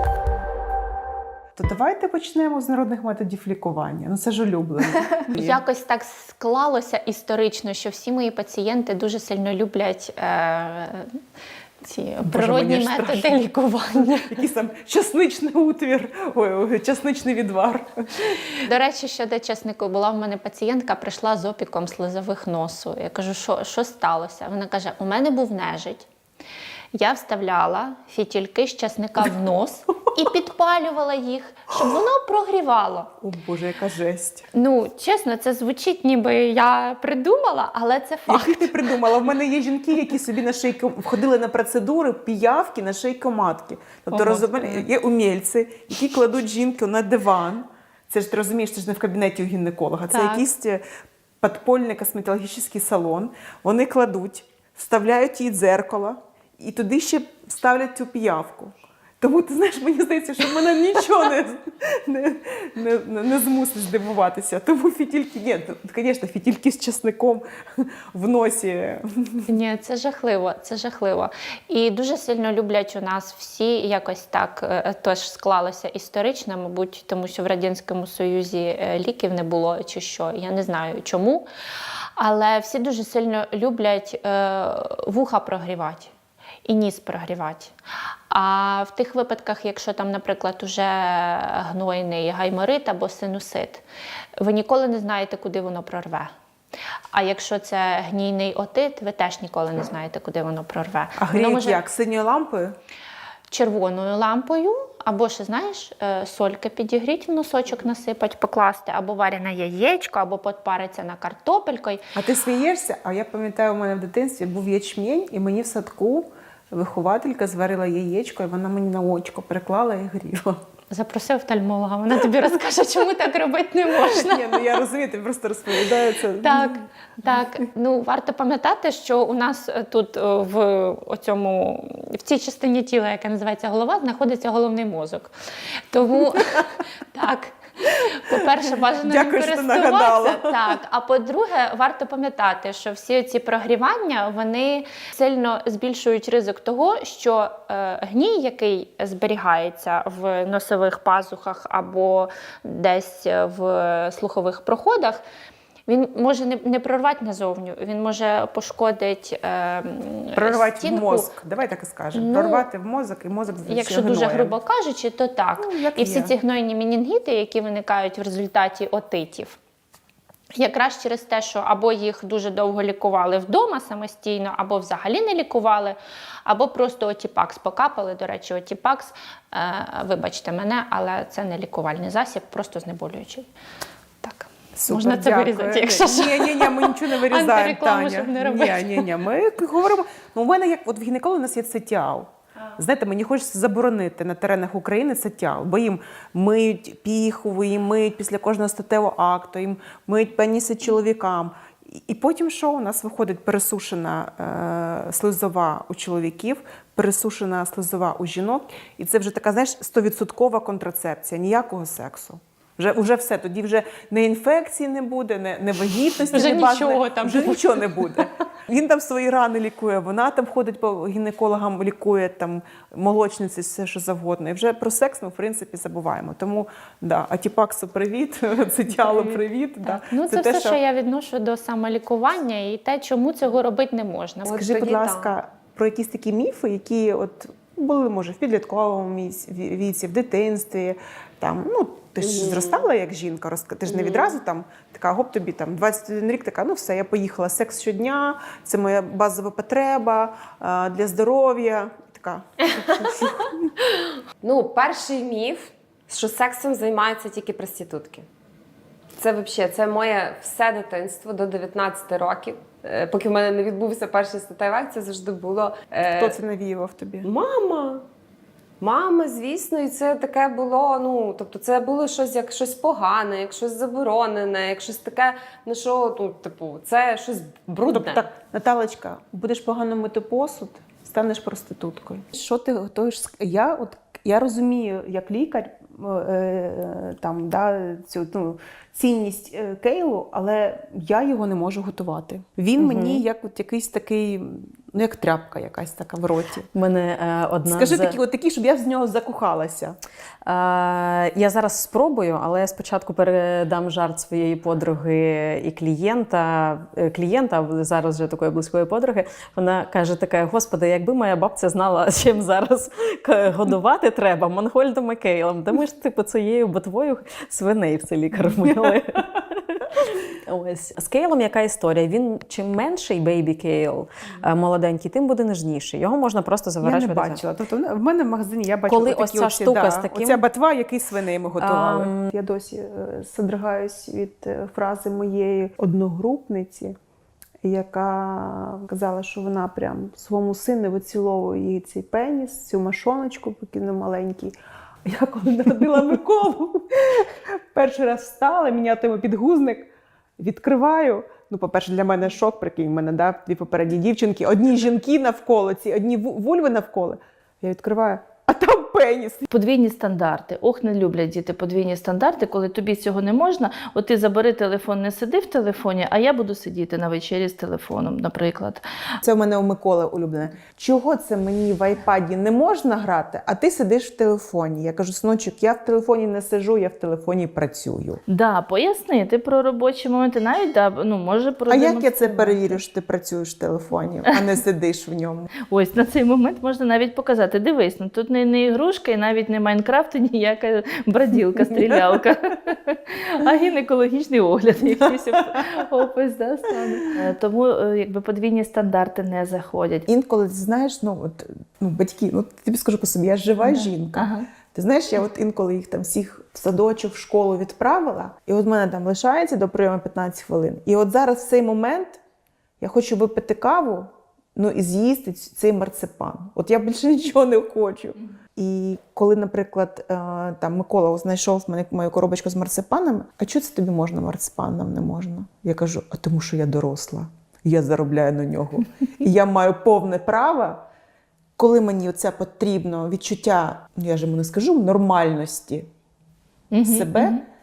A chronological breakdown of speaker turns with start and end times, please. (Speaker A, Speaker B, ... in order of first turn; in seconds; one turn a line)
Speaker A: 1.6-5.6
Speaker B: 5.3-11.2
Speaker B: 11.8-14.4
Speaker A: 12.2-13.5
Speaker A: 14.1-18.4
Speaker B: 18.7-26.1
Speaker B: 27.0-33.1
Speaker A: 33.2-34.5
Speaker B: 34.5-38.7
Speaker A: 38.3-50.8
Speaker B: 44.1-44.6
Speaker B: 50.1-50.5
Speaker A: 51.4-69.5
Speaker B: 69.5-81.5
Speaker B: 82.2-86.1
Speaker B: 86.7-87.8
Speaker B: 88.3-93.8
Speaker B: 94.4-96.3
Speaker B: 97.1-101.8
Speaker A: 101.2-102.8
Speaker B: 103.5-112.0
Speaker A: 112.2-120.6
Speaker B: 120.9-124.7
Speaker A: 124.0-126.8
Speaker B: 126.4-135.3
Speaker B: 135.9-137.6
Speaker B: 138.1-155.2
Speaker A: 139.0-140.8
Speaker B: 155.9-161.3
Speaker A: 160.3-164.6
Speaker B: 162.1-162.7
Speaker B: 163.7-169.6
Speaker A: 165.6-166.3
Speaker B: 170.6-183.5
Speaker B: 184.2-189.1
Speaker A: 184.8-230.8
Speaker B: 216.3-218.2
Speaker B: 229.0-235.2
Speaker A: 234.5-253.5
Speaker C: 234.5-235.3
Speaker C: 242.2-242.8
Speaker C: 243.9-244.3
Speaker C: 254.4-258.3
Speaker C: 259.2-266.4
Speaker A: 266.1-267.3
Speaker C: 267.2-268.0
Speaker C: 268.8-278.2
Speaker A: 277.9-296.7
Speaker D: 292.8-293.2
Speaker D: 296.7-298.2
Speaker A: 297.7-299.9
Speaker D: 300.4-327.4
Speaker A: 326.8-336.9
Speaker D: 328.9-330.4
Speaker D: 331.6-332.3
Speaker A: 337.6-359.5
Speaker E: 359.5-368.8
Speaker A: 369.2-378.2
Speaker E: 378.3-382.8
Speaker A: 381.7-385.5
Speaker E: 385.7-400.1
Speaker A: 400.1-412.2
Speaker E: 403.6-404.4
Speaker A: 412.8-430.9
Speaker A: 431.6-435.9
Speaker E: 436.7-437.4
Speaker A: 436.8-437.4